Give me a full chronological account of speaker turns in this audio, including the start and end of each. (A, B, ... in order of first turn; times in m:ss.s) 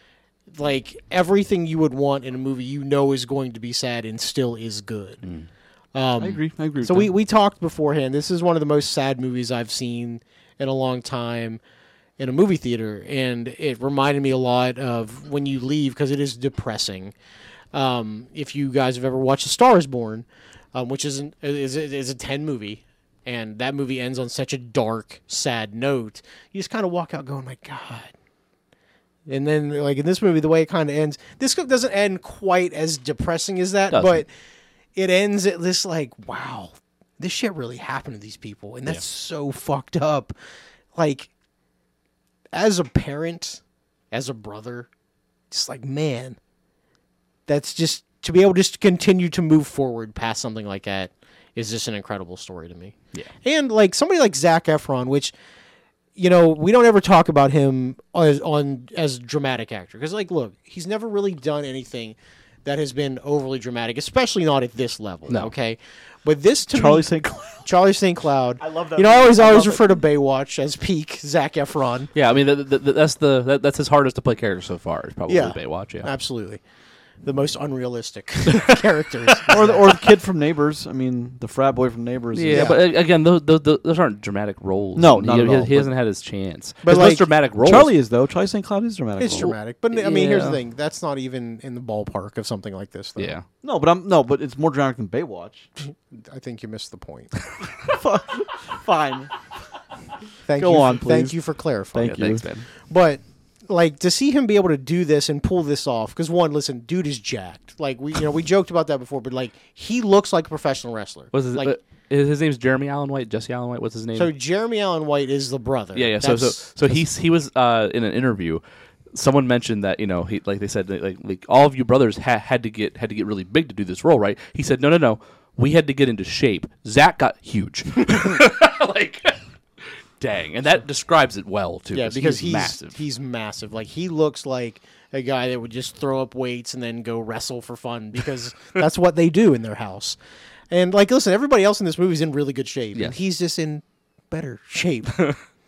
0:00.5-0:05.2 A
0:05.9-0:11.6 A
0:06.2-0:07.1 B
0:12.2-0:17.1 A
0:17.7-0:28.1 A
0:29.3-0:34.3 A
0:33.9-0:34.2 C
0:35.0-0:40.3 A
0:40.9-0:41.3 A
0:42.5-0:44.9 A
0:45.5-0:46.4 A
0:47.5-0:55.3 A
0:56.2-1:07.1 A
1:06.7-1:07.6 B
1:07.6-1:12.1 A
1:08.6-1:09.9 B
1:12.1-1:16.1 C
1:15.3-1:16.6 A
1:17.2-1:19.9 A
1:19.5-1:22.8 B
1:22.3-1:27.9 C
1:22.5-1:22.8 A
1:25.0-1:25.9 B
1:26.8-1:27.2 A
1:27.6-1:29.5 B
1:29.2-1:33.3 A
1:29.3-1:30.5 C
1:33.2-1:33.4 C
1:33.6-1:35.7 B
1:35.8-1:37.3 A
1:37.8-1:39.3 B
1:40.5-1:42.3 A
1:40.6-1:41.3 B
1:41.9-1:42.5 B
1:42.0-1:42.6 C
1:42.9-1:51.8 A
1:51.3-1:54.3 C
1:54.1-1:57.0 A
1:55.9-1:58.6 C
1:59.1-2:09.4 C
2:10.2-2:13.0 C
2:11.9-2:20.2 A
2:20.7-2:25.3 A